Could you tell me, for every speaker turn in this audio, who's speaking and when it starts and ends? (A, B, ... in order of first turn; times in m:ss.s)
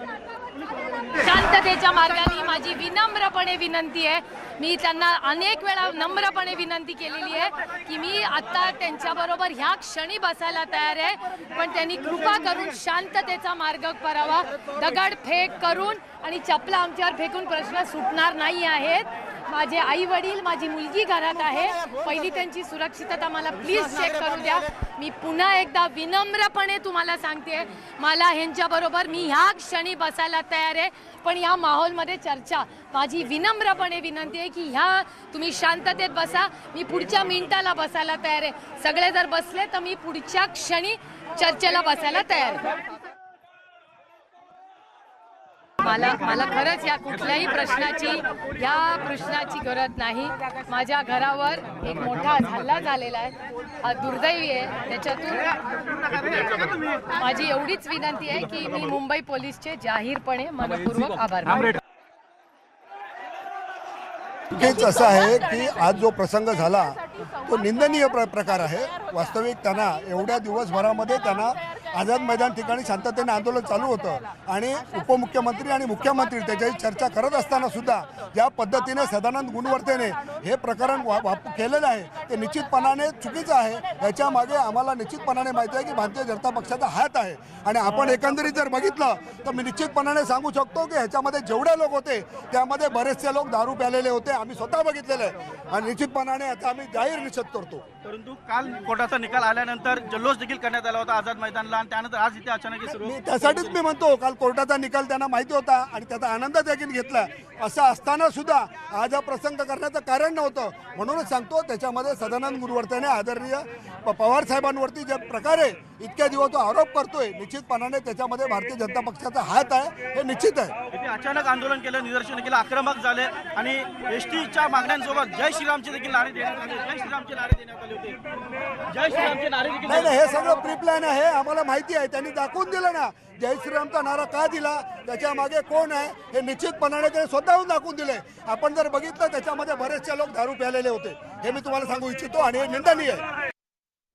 0:01.2-0:42.6 A
0:45.8-0:55.6 A
0:56.4-1:01.8 A
1:04.5-1:37.9 B
1:38.0-1:43.8 C
1:43.0-2:00.8 B
2:00.9-2:08.2 C
2:08.9-2:10.2 C
2:09.9-2:23.2 B